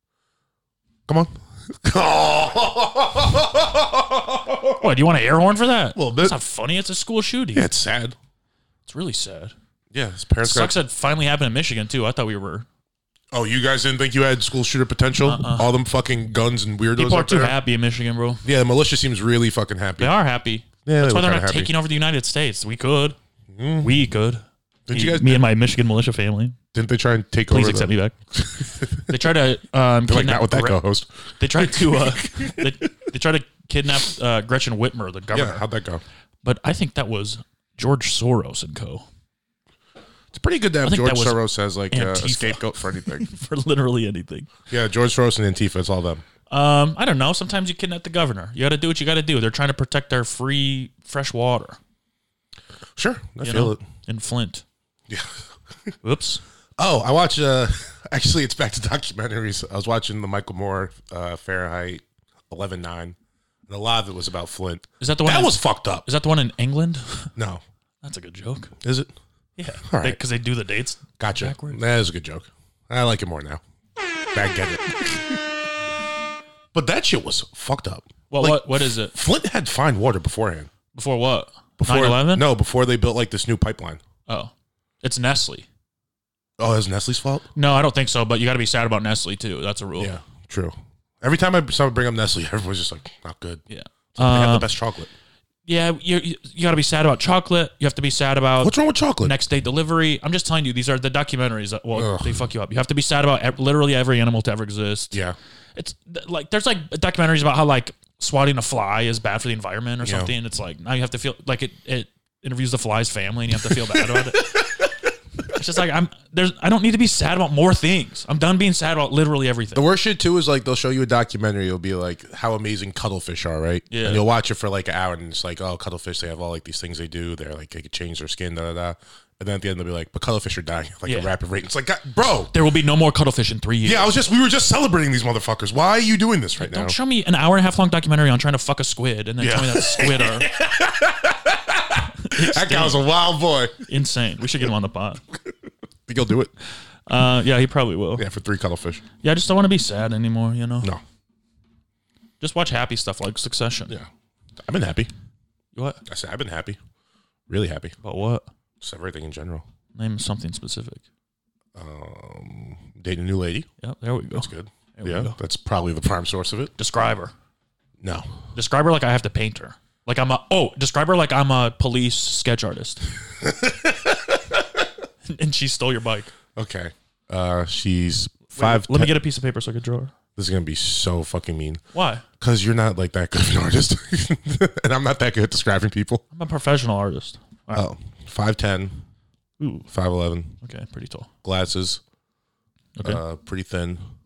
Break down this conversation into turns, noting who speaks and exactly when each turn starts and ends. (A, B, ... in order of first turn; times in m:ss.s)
0:01.1-0:04.9 A
0:04.8-0:07.7 B
0:05.9-0:06.4 A
0:07.5-0:08.2 A
0:08.8-0:09.5 B
0:09.9-0:10.7 A
0:10.4-0:12.7 B
0:13.3-0:17.6 A
0:15.2-0:15.7 B
0:16.9-0:18.4 B
0:18.4-0:20.1 A
0:20.0-0:23.2 B
0:20.8-0:21.7 A
0:23.5-0:24.0 A
0:23.8-0:26.6 B
0:24.9-0:25.5 A
0:26.7-0:29.2 A
0:27.5-0:28.1 B
0:29.1-0:30.8 B
0:30.1-0:32.7 A
0:31.4-0:35.6 B
0:35.3-0:36.0 A
0:36.4-0:39.0 B
0:40.3-0:43.3 A
0:40.8-0:44.5 B
0:44.7-0:46.2 A
0:46.5-0:51.8 B
0:52.9-0:53.8 A
0:53.4-0:54.6 B
0:55.1-0:55.9 A
0:56.0-0:56.4 B
0:56.8-1:03.2 A
1:03.7-1:06.0 A
1:05.0-1:07.3 B
1:07.4-1:07.6 A
1:08.0-1:08.7 B
1:08.8-1:09.1 A
1:09.6-1:11.8 B
1:09.8-1:10.2 A
1:11.2-1:13.6 A
1:14.3-1:15.4 A
1:16.7-1:20.7 A
1:18.3-1:19.2 B
1:20.9-1:22.4 B
1:21.8-1:24.0 A
1:24.3-1:25.6 B
1:26.6-1:27.5 A
1:27.5-1:30.1 B
1:30.0-1:33.6 A
1:33.7-1:34.7 B
1:34.2-1:35.1 A
1:35.6-1:45.2 B
1:38.6-1:39.3 A
1:41.9-1:42.4 A
1:45.7-1:54.8 B
1:50.0-1:50.3 A
1:53.7-1:54.6 A
1:55.4-1:59.8 B
1:59.7-2:12.5 A
2:03.9-2:04.2 B
2:11.0-2:11.3 B
2:12.5-2:14.1 B
2:13.8-2:17.0 A
2:16.6-2:20.5 B
2:19.4-2:23.8 A
2:22.2-2:23.0 B
2:23.8-2:25.2 B
2:26.0-2:26.5 A
2:27.1-2:28.2 B
2:28.2-2:29.0 A
2:29.2-2:30.9 B
2:32.4-2:33.9 B
2:33.9-2:35.1 A
2:35.7-2:36.0 B
2:36.0-2:36.8 A
2:37.5-2:37.9 A
2:38.0-2:38.5 B
2:38.8-2:39.6 A
2:39.9-2:41.0 B
2:41.7-2:43.7 A
2:43.8-2:45.4 B
2:44.3-2:46.7 A
2:46.8-2:47.3 B
2:48.0-2:48.3 A
2:48.5-2:53.1 B
2:53.2-2:54.6 A
2:55.2-2:56.3 B
2:56.6-2:59.2 A
2:58.5-3:00.1 B
3:00.4-3:01.8 A
3:01.9-3:02.2 B
3:02.4-3:06.2 A
3:06.3-3:07.8 B
3:07.7-3:09.0 A
3:09.6-3:09.9 B
3:09.9-3:10.6 A
3:10.6-3:11.3 B
3:11.4-3:12.0 A
3:13.0-3:13.2 B
3:13.0-3:14.0 A